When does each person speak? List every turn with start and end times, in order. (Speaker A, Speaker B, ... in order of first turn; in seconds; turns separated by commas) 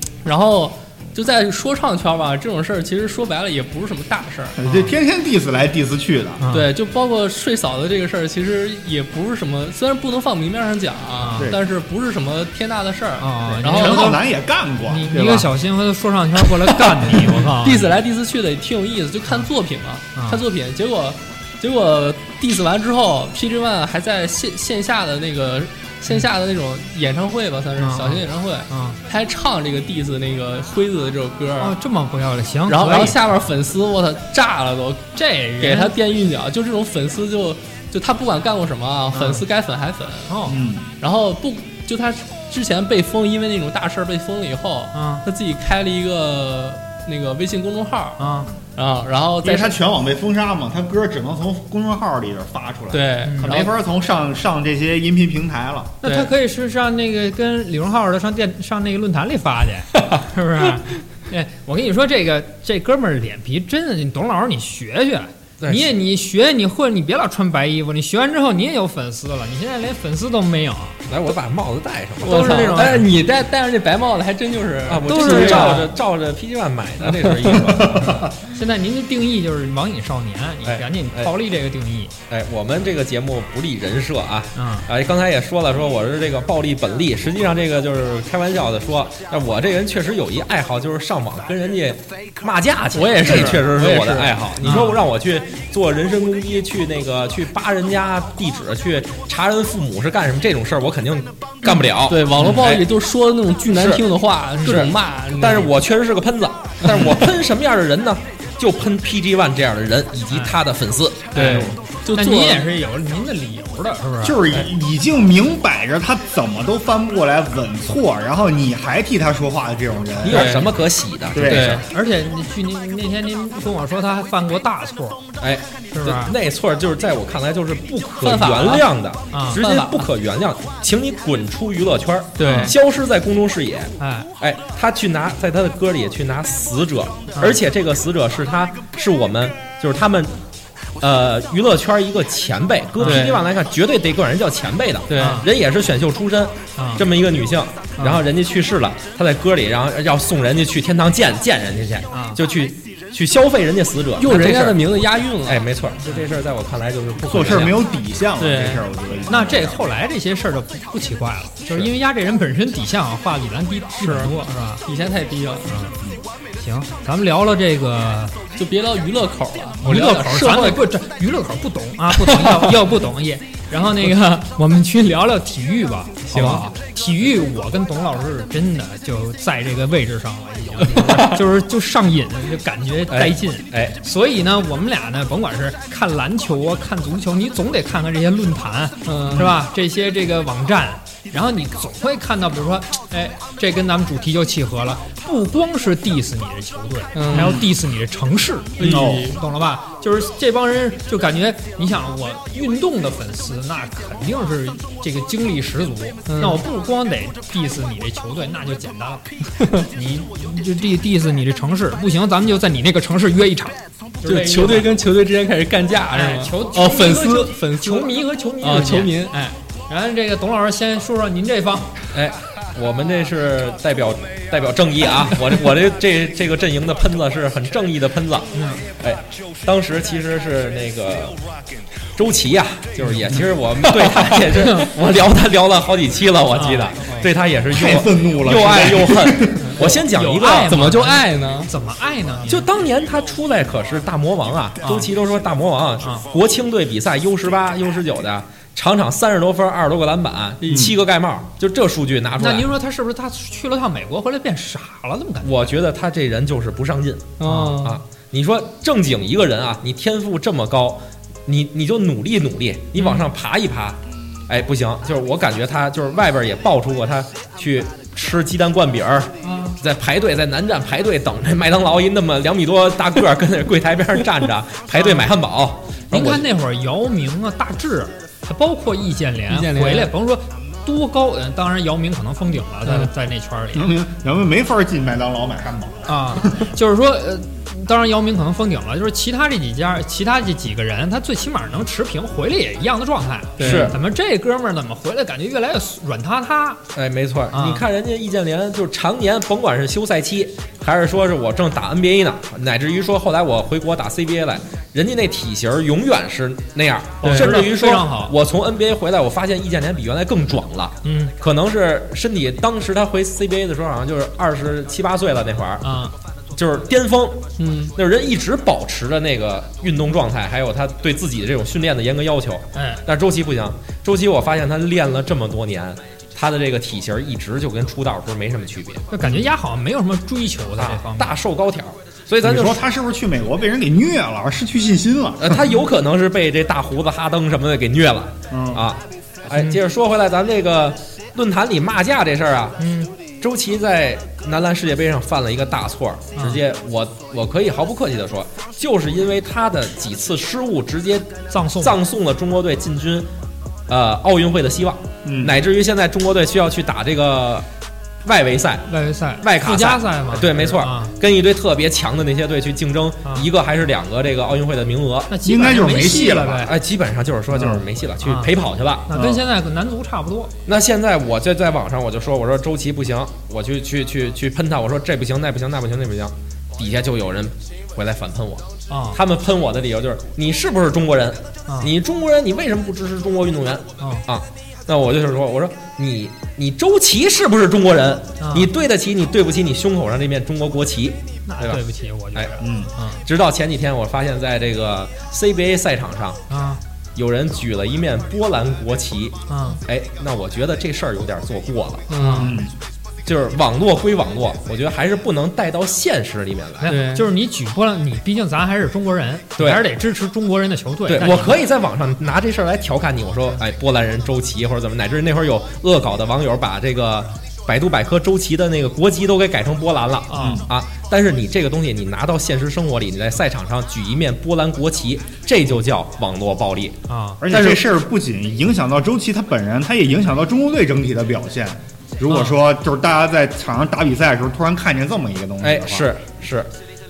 Speaker A: 0.2-4.6, Speaker B: 4.6-6.4, Speaker C: 4.6-4.9, Speaker C: 6.4-6.7, Speaker A: 6.5-14.1, Speaker C: 11.2-11.5, Speaker C: 13.2-14.2, Speaker B: 13.6-15.5, Speaker C: 14.9-17.9, Speaker A: 16.4-31.7, Speaker C: 20.1-20.4, Speaker C: 27.8-29.0, Speaker C: 31.6-33.2, Speaker A: 32.7-35.1, Speaker C: 35.1-35.9, Speaker A: 35.6-40.3, Speaker C: 39.1-39.4, Speaker C: 40.3-40.6, Speaker B: 40.5-40.9, Speaker A: 41.0-48.2, Speaker C: 44.9-45.2, Speaker C: 48.2-48.5, Speaker A: 48.8-49.8, Speaker B: 49.4-56.0, Speaker A: 52.9-53.7, Speaker C: 53.2-53.6, Speaker C: 56.0-71.0, Speaker A: 56.0-56.3, Speaker D: 65.6-65.9, Speaker D: 71.1-73.0, Speaker A: 72.2-75.9, Speaker C: 72.2-73.1, Speaker D: 74.9-78.2, Speaker C: 75.1-75.9, Speaker A: 77.0-77.6, Speaker C: 77.8-82.1, Speaker B: 77.8-78.3, Speaker D: 80.6-81.3, Speaker D: 82.3-102.8, Speaker C: 84.5-84.9, Speaker A: 92.9-94.6, Speaker C: 94.6-95.0, Speaker A: 101.7-105.7, Speaker D: 103.7-104.0, Speaker C: 104.6-104.8, Speaker D: 104.6-111.8, Speaker A: 106.8-107.2, Speaker C: 110.3-110.6, Speaker A: 111.3-112.7, Speaker C: 111.3-114.4, Speaker B: 114.2-120.6, Speaker D: 120.2-121.8, Speaker A: 120.2-120.7, Speaker B: 121.3-121.8, Speaker A: 121.4-121.8, Speaker C: 121.8-125.2, Speaker D: 125.4-140.3, Speaker C: 125.9-126.3, Speaker A: 128.2-128.9, Speaker C: 129.3-129.6, Speaker A: 129.5-130.1, Speaker A: 132.4-132.7, Speaker C: 132.4-132.7, Speaker C: 134.0-134.3, Speaker C: 137.3-137.6, Speaker D: 141.0-154.8, Speaker C: 143.0-143.3, Speaker A: 143.0-143.4, Speaker A: 145.1-145.4, Speaker C: 145.2-145.5, Speaker C: 146.8-147.0, Speaker C: 148.0-148.2, Speaker C: 152.1-152.4, Speaker A: 154.2-155.7, Speaker D: 155.4-157.8, Speaker B: 157.2-159.8, Speaker A: 158.4-158.9, Speaker C: 159.3-164.8, Speaker A: 164.0-165.7, Speaker C: 165.6-166.0, Speaker C: 166.6-168.3, Speaker A: 168.6-170.9, Speaker C: 169.8-209.2, Speaker A: 172.2-172.8, Speaker D: 176.3-176.7, Speaker A: 181.0-181.4, Speaker D: 183.1-183.9, Speaker A: 189.0-189.5, Speaker A: 197.1-197.6, Speaker B: 197.3-197.6, Speaker A: 198.8-199.4, Speaker B: 198.8-199.3, Speaker A: 206.3-206.6, Speaker A: 209.6-209.9, Speaker C: 209.9-214.9, Speaker A: 214.2-219.3, Speaker C: 216.1-221.9, Speaker D: 222.1-231.4, Speaker C: 228.5-228.8, Speaker D: 232.2-240.9, Speaker C: 233.0-233.4, Speaker A: 233.8-234.6, Speaker C: 234.6-234.9, Speaker C: 236.5-237.3, Speaker B: 237.7-239.8, Speaker C: 239.7-242.7, Speaker A: 240.7-241.7, Speaker D: 242.5-252.7, Speaker C: 244.8-245.1, Speaker A: 250.6-250.9, Speaker B: 250.7-250.9, Speaker C: 252.4-255.7, Speaker D: 255.4-276.4, Speaker A: 257.4-258.0, Speaker C: 257.4-257.8, Speaker C: 262.9-263.3, Speaker C: 269.4-269.8, Speaker C: 274.9-275.3, Speaker C: 276.1-283.9, Speaker A: 279.5-280.1, Speaker A: 282.9-283.1, Speaker B: 283.7-286.7, Speaker C: 286.1-296.8, Speaker A: 293.6-293.9, Speaker D: 293.6-294.0, Speaker D: 296.9-315.9, Speaker C: 297.5-297.8, Speaker A: 307.2-307.6, Speaker C: 307.2-308.3, Speaker C: 311.0-311.3, Speaker C: 315.8-316.1, Speaker D: 316.5-329.3, Speaker A: 317.6-317.9, Speaker C: 322.7-323.0, Speaker C: 329.1-331.3, Speaker D: 330.8-332.8, Speaker B: 332.4-335.7, Speaker D: 335.4-342.8, Speaker B: 338.5-338.9, Speaker C: 342.8-343.1, Speaker D: 343.4-353.3, Speaker C: 346.3-346.6, Speaker C: 351.5-352.0, Speaker D: 353.9-357.6, Speaker B: 355.2-355.6, Speaker D: 358.2-358.9, Speaker C: 358.9-361.1, Speaker D: 359.4-365.3, Speaker C: 365.3-366.7, Speaker B: 365.4-366.7, Speaker D: 366.6-369.1, Speaker B: 367.5-367.8, Speaker C: 368.2-368.5, Speaker C: 369.1-370.5, Speaker B: 369.1-369.4, Speaker D: 370.6-391.8, Speaker C: 378.9-379.2, Speaker C: 381.7-381.9, Speaker C: 384.0-384.2, Speaker C: 388.4-388.7, Speaker C: 391.5-393.2, Speaker B: 392.6-392.9, Speaker D: 393.2-396.4, Speaker C: 396.5-396.8, Speaker D: 397.1-402.0, Speaker C: 399.5-399.8, Speaker A: 402.1-402.5, Speaker C: 402.1-402.5, Speaker B: 402.4-402.7, Speaker D: 403.2-406.9, Speaker C: 406.8-411.6, Speaker A: 406.9-407.3, Speaker D: 409.6-409.8, Speaker D: 411.1-427.0, Speaker C: 420.3-420.6, Speaker B: 420.4-420.7, Speaker C: 427.1-427.4, Speaker B: 427.4-436.1, Speaker D: 427.5-427.8, Speaker C: 432.3-432.6, Speaker D: 435.6-436.7